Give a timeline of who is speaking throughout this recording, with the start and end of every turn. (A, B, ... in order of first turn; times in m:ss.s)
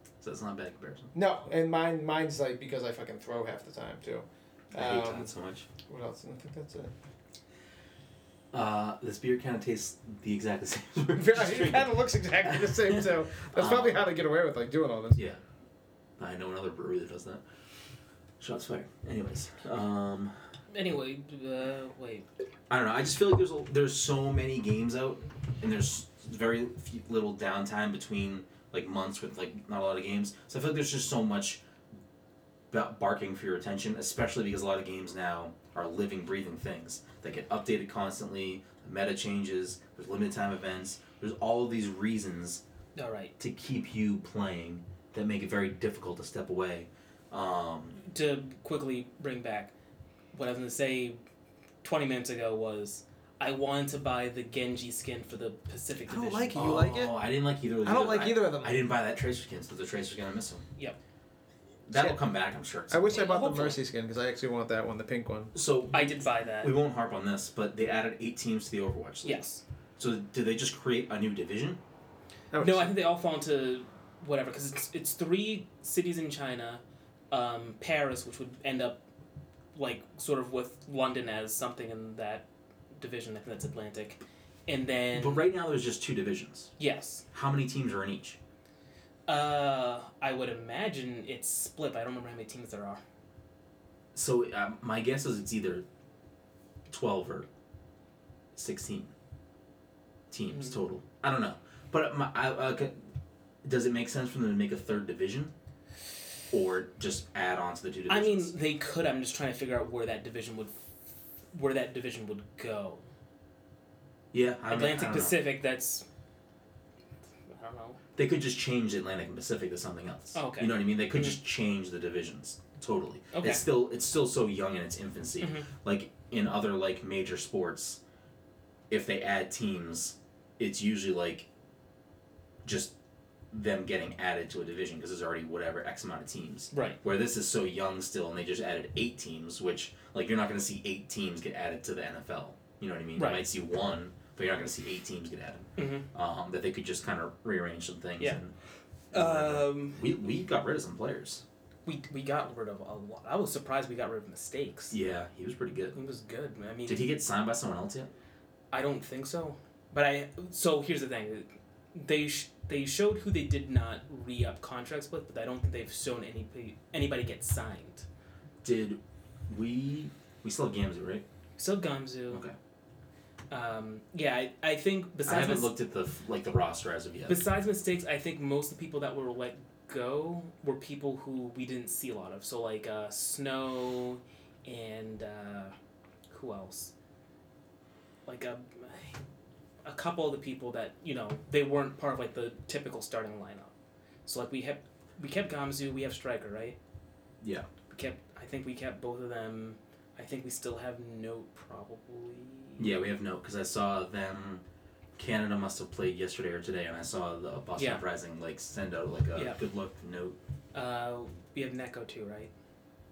0:00.2-0:01.1 A
0:01.1-0:05.3 B
0:04.7-0:05.7 A
0:05.8-0:06.9 B
0:08.5-0:14.1 A
0:11.1-0:15.2 B
0:15.2-0:15.4 A
0:16.2-0:17.4 A
0:18.4-0:20.3 A
0:20.7-0:22.2 C
0:22.7-0:31.6 A
0:32.7-0:42.6 A
0:43.0-0:43.3 C
0:43.4-0:48.0 A
0:48.0-0:49.7 C
0:50.3-0:51.2 C
0:51.8-0:56.7 C
0:56.1-0:57.2 B
0:56.5-1:00.6 A
0:57.8-0:58.8 B
1:01.9-1:03.6 A
1:01.9-1:02.2 B
1:02.9-1:05.5 B
1:03.1-1:03.7 C
1:05.5-1:09.4 A
1:05.9-1:06.7 C
1:09.2-1:09.6 C
1:10.0-1:11.8 A
1:12.5-1:12.9 B
1:12.6-1:19.0 C
1:19.7-1:25.5 C
1:25.1-1:26.7 A
1:26.8-1:27.2 C
1:27.3-1:28.4 A
1:29.3-1:33.0 C
1:34.1-1:35.8 A
1:36.9-1:37.5 A
1:38.5-1:39.1 A
1:40.3-1:42.9 A
1:43.6-1:45.5 A
1:46.5-1:48.5 A
1:48.1-1:50.7 C
1:51.5-1:53.0 C
1:54.3-1:55.4 A
1:54.7-1:56.0 C
1:57.5-1:58.0 C
1:58.2-2:08.0 A
2:00.3-2:01.4 C
2:03.3-2:03.6 C
2:05.4-2:05.7 C
2:08.9-2:11.5 A
2:12.6-2:12.9 A
2:13.5-2:28.5 A
2:16.7-2:17.0 C
2:23.2-2:23.4 C
2:25.8-2:26.0 C
2:29.1-2:30.0 C
2:29.1-2:31.4 A
2:31.8-2:34.9 C
2:34.9-2:36.0 A
2:35.9-2:37.1 C
2:36.8-2:38.1 A
2:38.7-2:48.0 C
2:48.6-2:51.2 A
2:51.6-2:52.4 C
2:53.5-2:55.7 C
2:55.2-2:57.4 A
2:57.3-3:05.7 C
3:06.3-3:06.9 C
3:08.2-3:09.2 C
3:09.8-3:13.7 C
3:14.2-3:16.8 C
3:17.4-3:17.7 A
3:17.9-3:22.9 C
3:22.8-3:24.6 A
3:25.2-3:30.4 A
3:27.8-3:28.0 C
3:30.7-3:32.5 C